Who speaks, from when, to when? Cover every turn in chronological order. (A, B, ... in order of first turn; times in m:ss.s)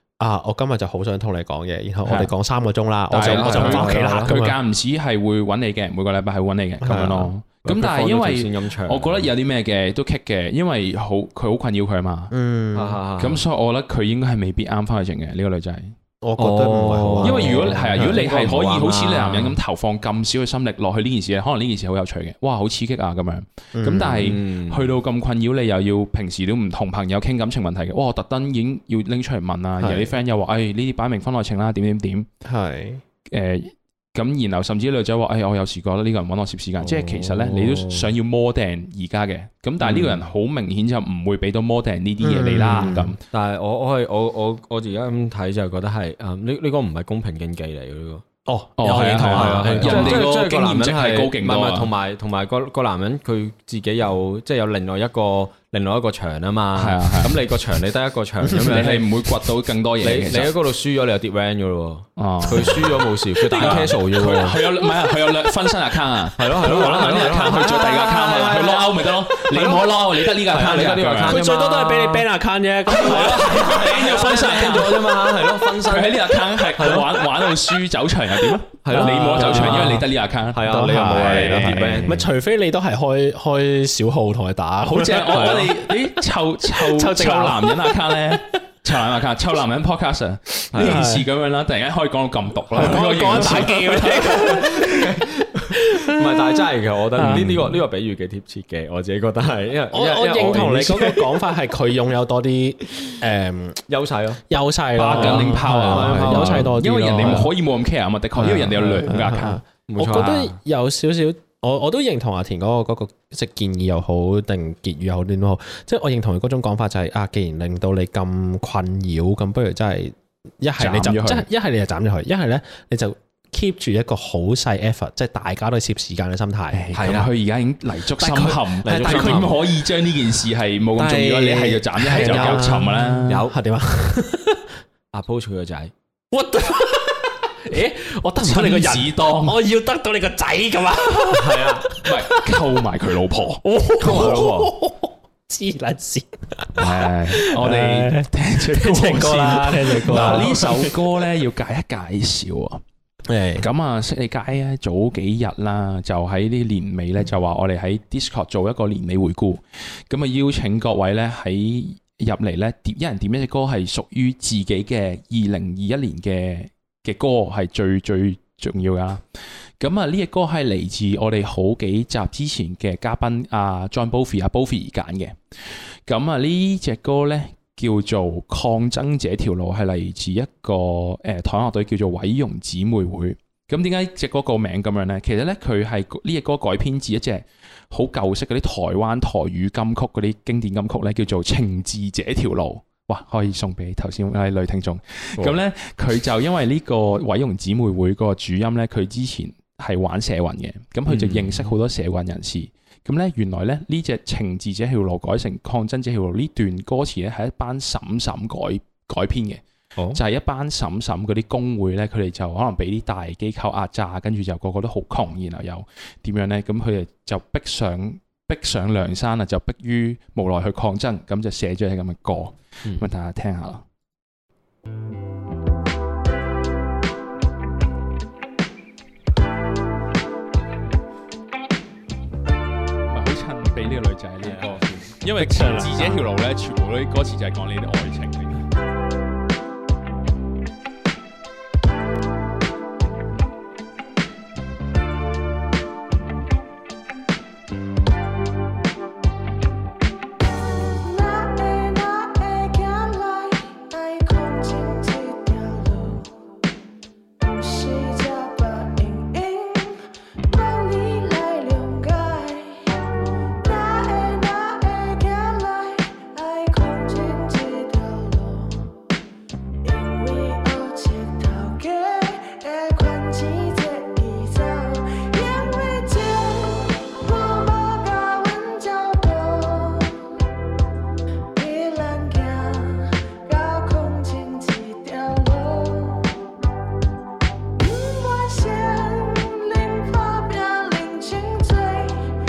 0:00.2-0:04.6 A
0:02.0-0:02.3 B
0:03.1-0:12.3 B
0:03.1-0:04.3 C
0:06.8-0:07.3 A
0:07.6-0:09.3 C
0:12.3-0:13.0 A
0:12.7-0:13.4 C
0:13.2-0:15.9 B
0:16.2-0:18.2 A
0:16.4-0:19.6 C
0:17.2-0:32.3 B
0:23.7-0:24.3 A
0:24.2-0:24.9 C
0:29.8-0:30.1 A
0:32.4-0:33.0 A
0:33.3-0:43.2 B
0:36.8-0:38.1 C
0:39.8-0:40.2 C
0:42.2-0:43.1 A
0:43.3-0:48.2 C
0:48.5-0:50.2 A
0:48.8-0:51.9 B
0:49.0-0:59.1 C
0:56.7-0:57.4 B
0:58.5-1:00.5 B
1:00.0-1:04.6 C
1:02.2-1:11.4 B
1:03.4-1:05.1 A
1:06.4-1:12.3 C
1:06.7-1:07.0 A
1:11.2-1:15.1 A
1:12.9-1:17.2 C
1:12.9-1:22.2 B
1:18.8-1:22.2 C
1:18.9-1:20.0 A
1:20.6-1:28.4 A
1:24.8-1:34.8 B
1:25.3-1:25.7 C
1:30.7-1:31.0 C
1:30.7-1:31.3 A
1:32.7-1:36.6 A
1:32.8-1:41.5 C
1:37.2-1:37.7 A
1:37.2-1:37.6 B
1:39.9-1:43.8 A
1:43.9-1:44.4 C
1:44.5-1:47.5 A
1:45.0-1:49.6 B
1:45.1-1:47.5 C
1:48.4-2:06.9 A
1:49.9-1:50.5 C
2:00.8-2:01.5 B
2:06.7-2:13.5 B
2:06.9-2:07.3 C
2:08.2-2:09.5 A
2:08.8-2:09.6 C
2:11.0-2:14.7 A
2:12.1-2:13.6 C
2:15.1-2:15.9 C
2:16.3-2:22.5 A
2:18.4-2:19.6 B
2:21.3-2:21.9 C
2:22.0-2:23.6 B
2:23.6-2:30.9 A
2:24.0-2:24.7 C
2:26.8-2:32.8 B
2:33.3-2:33.7 A
2:33.6-2:49.2 B
2:49.8-2:55.4 B
2:56.0-3:29.6 B
3:21.1-3:21.7 C
3:30.1-3:43.8 B
3:53.1-3:58.6 B
3:54.4-3:55.1 C
3:55.4-3:56.2 A
4:11.0-4:16.3 D
4:17.4-4:23.0 D
4:23.6-4:28.9 D
4:29.8-4:40.3 D
4:41.5-4:46.4 D
4:47.8-4:52.3 D